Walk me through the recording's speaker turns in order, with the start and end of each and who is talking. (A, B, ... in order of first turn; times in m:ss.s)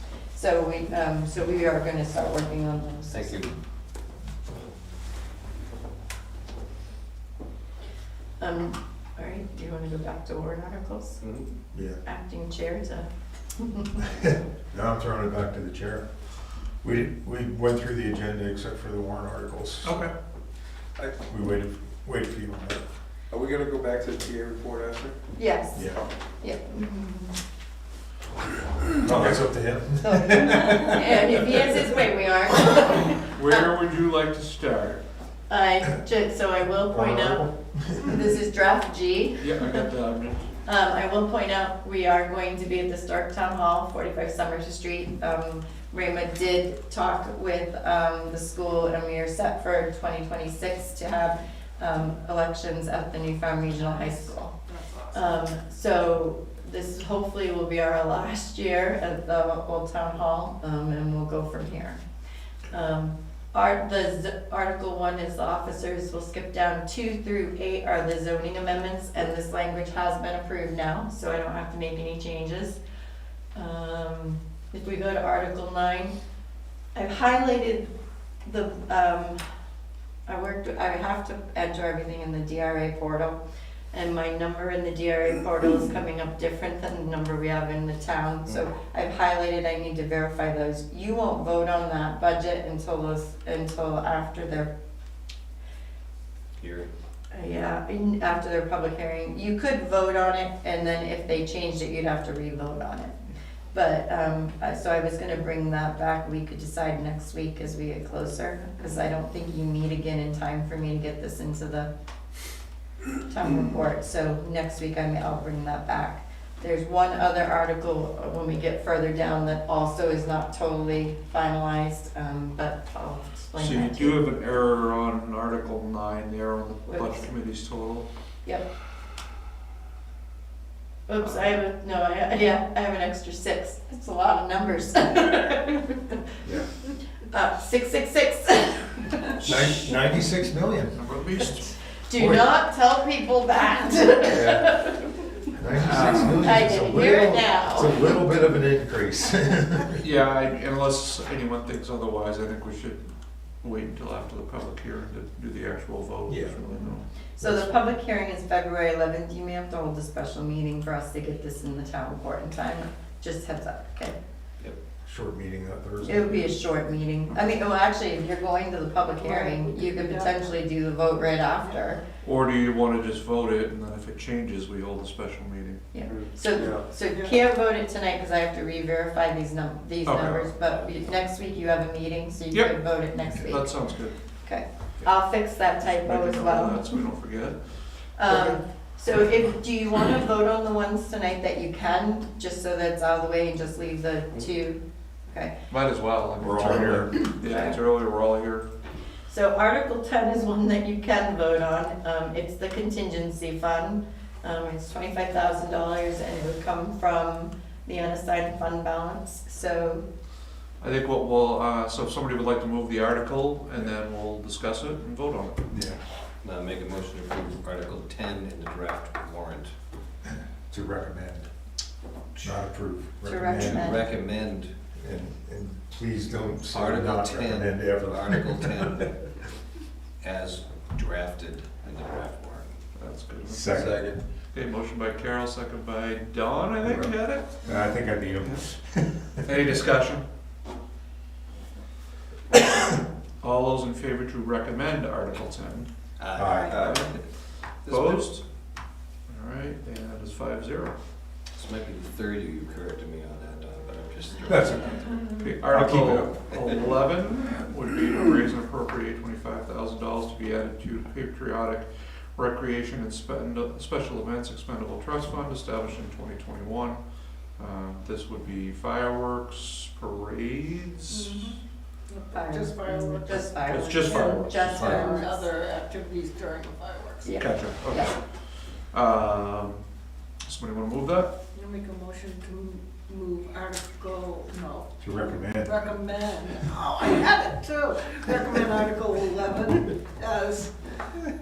0:00.3-0:03.6 A
0:03.1-0:03.5 B
0:08.4-0:11.2 A
0:11.2-0:11.5 B
0:11.7-0:12.0 C
0:12.0-0:14.0 A
0:14.0-0:16.1 C
0:16.8-0:20.1 C
0:19.8-0:20.1 D
0:21.3-0:22.8 C
0:23.3-0:25.2 E
0:25.4-0:27.4 A
0:25.7-0:26.0 C
0:29.0-0:31.8 C
0:30.0-0:33.6 A
0:32.9-0:35.0 D
0:35.5-0:39.8 A
0:36.9-0:38.2 C
0:39.4-0:40.5 D
0:40.6-0:54.5 A
0:54.7-0:55.2 F
0:55.1-1:02.0 A
1:02.7-1:12.8 A
1:13.6-1:16.2 A
1:17.0-1:17.9 A
1:18.4-1:19.4 A
1:20.3-1:23.4 A
1:23.9-1:34.7 A
1:36.6-1:36.9 B
1:37.3-1:43.2 A
1:43.7-1:51.9 A
1:53.2-2:04.2 A
2:03.6-2:08.1 D
2:06.9-2:07.3 A
2:11.1-2:16.4 A
2:11.2-2:11.5 D
2:17.3-2:19.6 A
2:19.4-2:21.0 C
2:20.9-2:21.8 D
2:22.0-2:25.3 A
2:22.2-2:22.5 C
2:24.3-2:24.7 C
2:25.6-2:30.0 C
2:25.8-2:26.5 D
2:25.9-2:28.1 A
2:30.0-2:33.0 D
2:33.6-2:37.0 D
2:36.3-2:36.6 C
2:37.4-2:44.2 A
2:37.4-2:37.7 C
2:45.0-2:46.5 C
2:46.0-2:52.0 A
2:49.1-2:50.5 F
2:52.2-2:55.8 D
2:55.9-3:03.7 A
2:56.1-2:56.8 E
2:57.1-2:57.4 F
3:00.1-3:00.5 D
3:00.7-3:01.1 B
3:02.5-3:04.2 D
3:04.4-3:06.9 A
3:05.8-3:07.6 D
3:08.2-3:15.6 A
3:15.7-3:18.7 D
3:16.4-3:17.3 C
3:17.4-3:17.8 A
3:19.3-3:30.0 A
3:30.8-3:35.7 D
3:35.7-3:36.0 C
3:36.4-3:39.7 B
3:40.7-3:41.5 C
3:42.4-3:44.0 C
3:43.2-3:44.0 A
3:43.5-3:44.7 B
3:45.0-3:48.8 C
3:46.7-3:49.2 B
3:50.2-3:52.8 B
3:53.0-3:57.8 D
3:53.5-3:54.1 C
3:53.7-3:54.2 E
3:56.8-3:59.5 C
3:59.4-4:00.2 D
4:02.5-4:05.9 D
4:06.2-4:07.3 B
4:06.4-4:06.8 C
4:06.4-4:06.7 A
4:06.7-4:07.1 D
4:07.8-4:08.4 D
4:07.9-4:08.2 B
4:09.3-4:11.0 D
4:11.5-4:14.9 B
4:14.4-4:16.4 C
4:15.4-4:27.0 D
4:27.6-4:31.4 D
4:31.1-4:33.5 F
4:32.3-4:35.5 A
4:33.6-4:35.1 D
4:34.1-4:37.3 F
4:37.2-4:38.1 A
4:37.4-4:38.2 D
4:38.9-4:39.8 D
4:40.4-4:41.3 D
4:41.5-4:50.7 F
4:45.0-4:45.8 C